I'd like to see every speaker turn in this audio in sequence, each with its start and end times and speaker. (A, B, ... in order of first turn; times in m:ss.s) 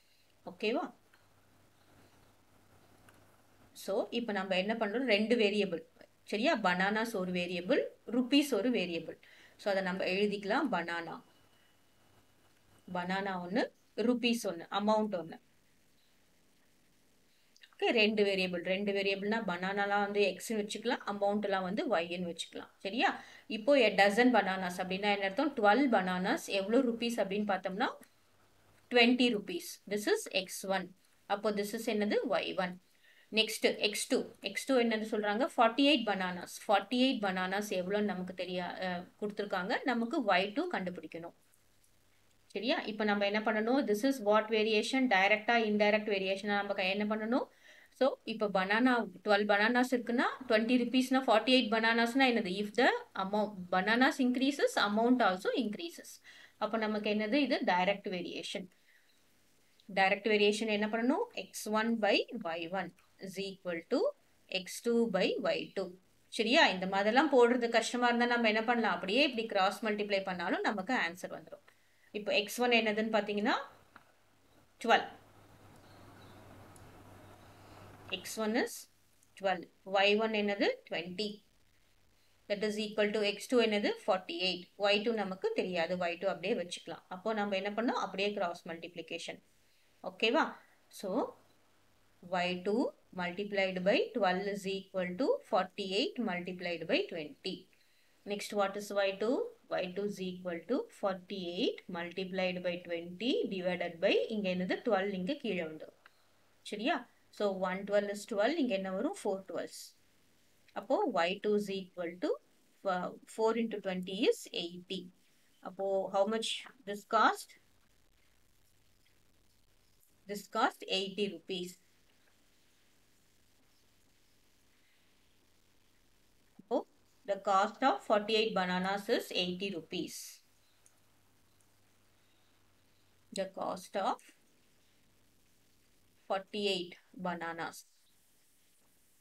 0:00.5-0:00.9 A
0:03.8-0:11.2 A
0:12.9-0:15.4 A
0:17.8-0:27.9 A
0:28.9-0:32.8 A
0:33.3-0:41.3 A
0:42.5-0:47.4 A
0:48.0-0:58.7 A
0:59.9-1:04.0 A
1:04.5-1:11.6 A
1:12.1-1:13.6 A
1:14.8-1:15.1 A
1:18.1-1:21.4 A
1:22.5-1:29.4 A
1:30.1-1:31.3 A
1:32.3-1:37.6 A
1:38.2-1:45.9 A
1:46.6-1:49.9 A
1:50.8-1:55.1 A
1:55.6-1:57.6 A
2:00.3-2:01.8 A
2:06.7-2:10.4 A
2:13.4-2:14.3 A
2:16.3-2:17.9 A